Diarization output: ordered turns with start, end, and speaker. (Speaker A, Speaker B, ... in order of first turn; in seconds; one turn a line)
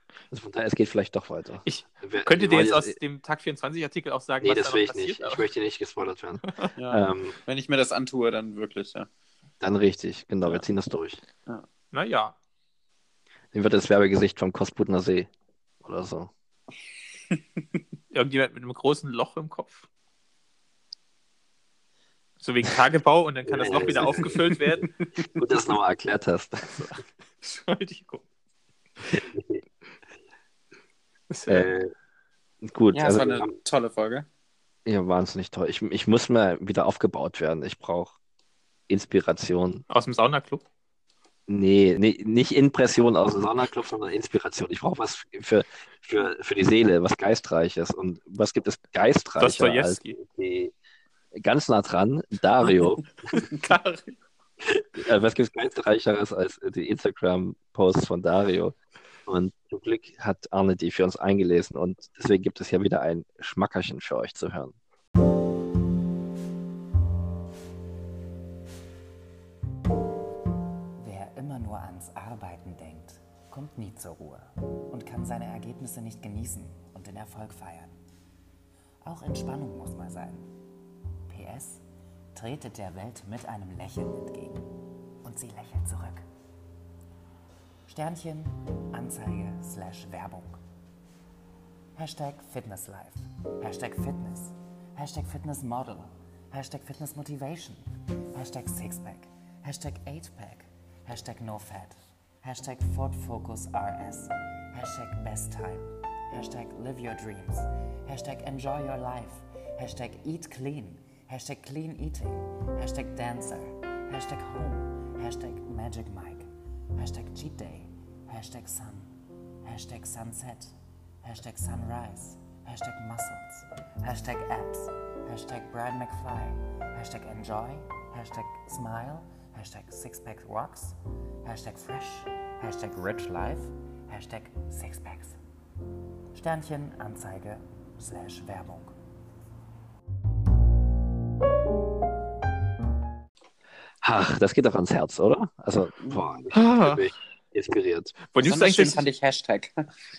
Speaker A: 0.3-3.0
Speaker B: 1.6-5.4
Speaker A: 4.4-7.4
Speaker C: 6.8-9.1
Speaker A: 9.6-11.2
Speaker B: 11.9-12.3
Speaker A: 13.5-15.3
Speaker A: 15.8-16.3
Speaker B: 18.1-19.9
Speaker B: 22.4-24.9
Speaker A: 23.5-26.9
Speaker B: 26.7-28.2
Speaker A: 29.1-29.6
Speaker B: 31.3-31.7
Speaker A: 31.5-31.9
Speaker A: 32.6-33.5
Speaker C: 32.9-34.3
Speaker A: 34.9-38.1
Speaker A: 38.9-39.8
Speaker B: 39.9-40.6
Speaker A: 41.5-50.7
Speaker B: 49.4-50.2
Speaker A: 51.3-53.1
Speaker B: 53.3-54.2
Speaker A: 54.6-58.8
Speaker A: 59.3-64.7
Speaker D: 71.0-78.0
Speaker D: 79.0-80.5
Speaker D: 81.3-84.7
Speaker D: 85.2-86.2
Speaker D: 87.9-90.6
Speaker D: 92.0-135.4
Speaker D: 136.3-138.9
Speaker A: 144.0-148.2
Speaker C: 146.0-146.4
Speaker B: 146.5-147.1
Speaker B: 148.3-149.1
Speaker C: 148.4-149.9